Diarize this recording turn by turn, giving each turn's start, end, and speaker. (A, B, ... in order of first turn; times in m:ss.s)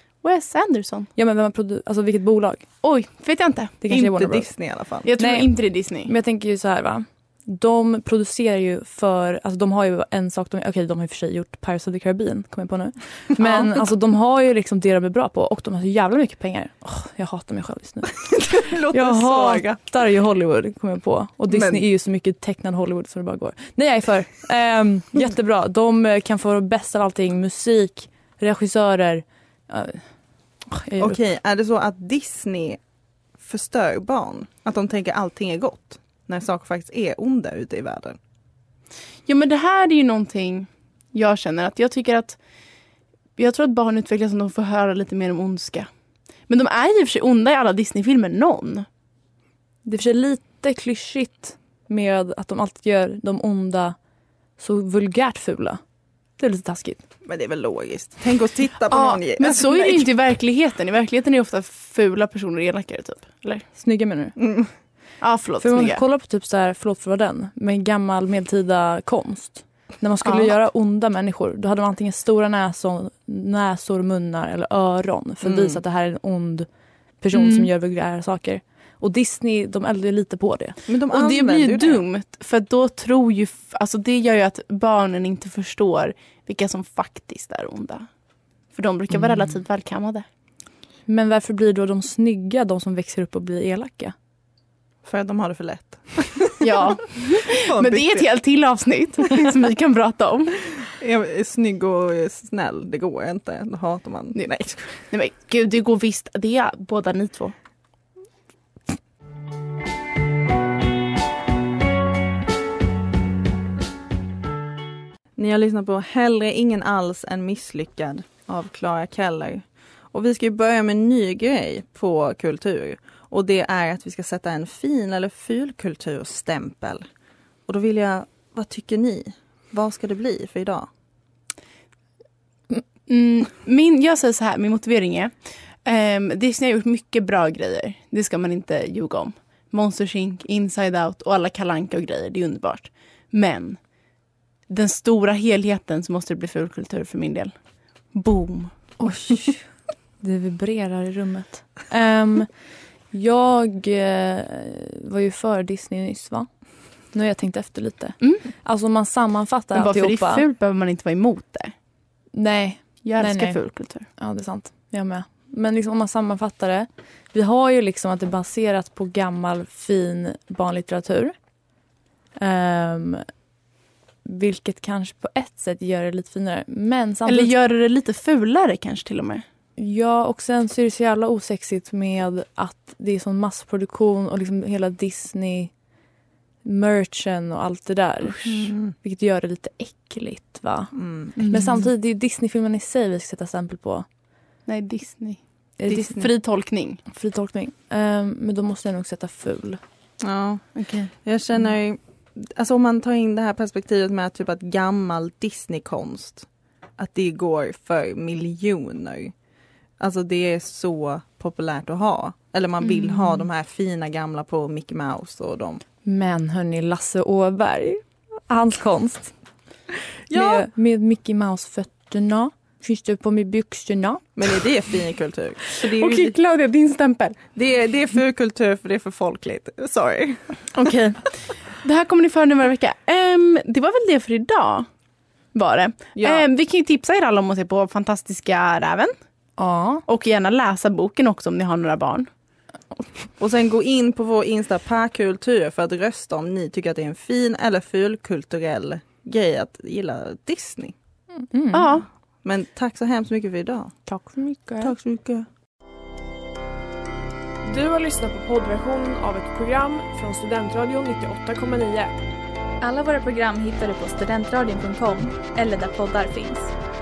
0:00.2-0:01.1 A
0:01.1-0:02.8 B
0:02.8-0:03.9 A
0:03.8-0:31.2 B
0:03.9-0:05.1 C
0:05.0-0:06.1 A
0:18.4-0:19.8 C
0:21.5-0:21.8 C
0:31.0-0:32.8 C
0:33.4-0:38.2 C
0:39.2-0:42.4 A
0:43.4-0:45.9 A
0:46.5-0:48.9 A
0:49.8-0:54.0 B
0:54.6-0:55.8 B
0:56.3-0:57.0 B
0:57.2-1:00.1 C
0:58.9-1:03.6 A
1:03.7-1:04.4 B
1:04.4-1:04.7 C
1:05.2-1:06.0 A
1:05.6-1:20.8 B
1:10.2-1:10.5 A
1:15.4-1:15.8 C
1:17.3-1:17.7 A
1:20.9-1:22.0 C
1:21.1-1:28.1 A
1:28.6-1:30.2 A
1:29.1-1:29.6 B
1:31.1-1:34.1 B
1:35.0-1:36.6 C
1:36.6-1:40.6 A
1:37.6-1:38.3 C
1:41.0-1:45.0 C
1:44.4-1:47.5 A
1:55.4-2:07.0 C
2:07.6-2:10.9 C
2:13.1-2:23.9 A
2:24.7-2:27.5 A
2:28.1-2:28.8 A
2:29.0-2:40.4 B
2:39.7-2:41.7 A
2:42.3-2:51.5 B
2:43.0-2:44.1 A
2:52.4-2:53.4 B
2:54.2-2:57.5 B
2:57.2-2:59.4 A
2:59.8-3:06.0 B
3:06.6-3:14.1 B
3:08.4-3:08.7 A
3:10.9-3:11.4 C
3:11.4-3:11.9 A
3:14.6-3:17.0 A
3:15.8-3:19.8 B
3:15.9-3:16.3 C
3:20.2-3:29.3 C
3:20.8-3:21.1 A
3:30.0-3:35.8 C
3:32.9-3:33.2 B
3:36.0-3:39.4 B
3:40.3-3:40.6 C
3:40.3-3:44.4 B
3:44.4-3:46.4 C
3:45.9-3:47.5 A
3:47.5-3:50.6 C
3:50.7-3:54.9 A
3:55.5-3:59.1 A
3:56.1-3:56.4 C
3:59.6-4:00.0 B
4:00.1-4:02.3 A
4:03.4-4:10.9 C
4:11.5-4:11.9 B
4:11.7-4:12.1 A
4:12.4-4:15.5 C
4:14.1-4:14.9 A
4:17.6-4:22.1 D
4:22.8-4:26.7 E